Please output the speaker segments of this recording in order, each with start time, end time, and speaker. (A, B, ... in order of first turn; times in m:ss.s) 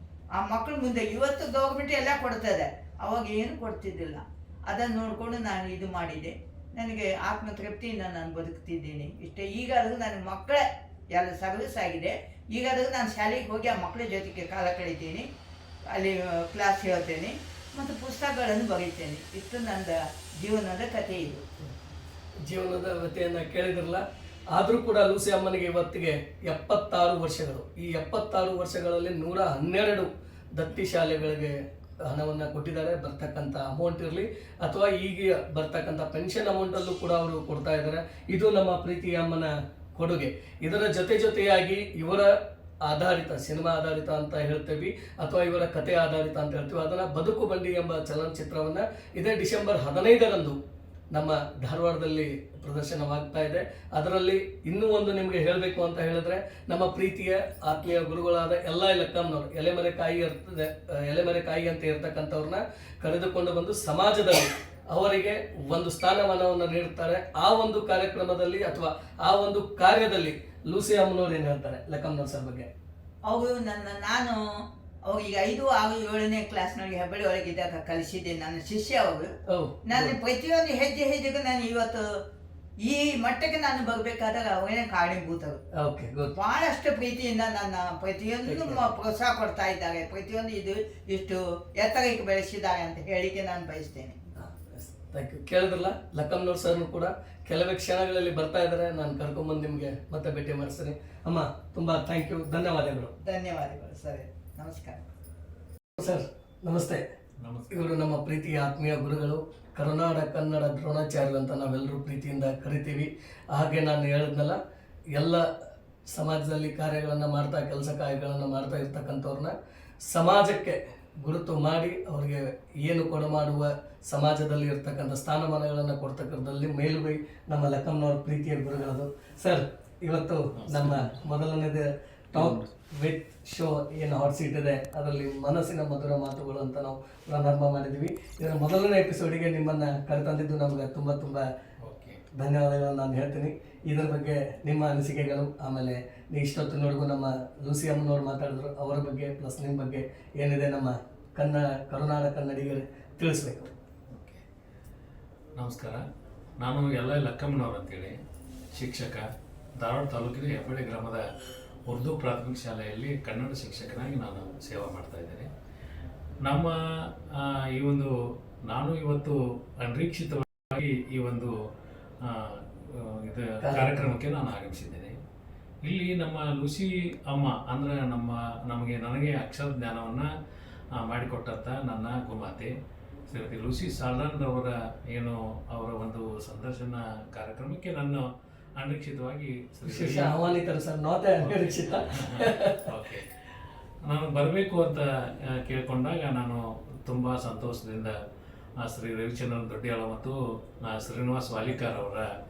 0:00.4-0:15.3 A
0:15.9-0:21.5 A
0:22.4-0:42.3 B
0:42.8-0:50.6 B
0:51.1-1:12.7 B
1:13.2-1:14.4 A
1:15.1-1:19.3 A
1:19.5-1:20.2 B
1:19.8-1:22.0 A
1:22.8-1:25.6 A
1:25.8-1:26.3 B
1:26.3-1:34.2 A
1:28.5-1:28.8 B
1:34.4-1:43.1 B
1:43.2-1:45.0 A
1:46.0-1:47.0 B
1:47.4-1:47.9 C
1:47.7-1:54.6 B
1:55.1-1:55.5 B
1:56.1-2:21.5 B
2:10.6-2:11.1 C
2:12.4-2:12.7 C
2:21.8-2:22.2 C
2:22.3-2:33.7 B
2:34.1-2:34.4 C
2:35.6-2:36.0 C
2:36.6-2:38.2 C
2:38.7-2:39.2 C
2:39.8-2:41.2 C
2:41.9-2:45.5 C
2:46.4-2:48.1 C
2:48.6-2:51.5 C
2:52.2-2:55.1 C
2:53.6-2:54.0 B
2:55.8-3:00.3 C
3:00.9-3:02.7 C
3:03.3-3:10.4 C
3:09.9-3:12.9 B
3:11.4-3:13.3 C
3:14.1-3:18.2 C
3:18.8-3:22.3 C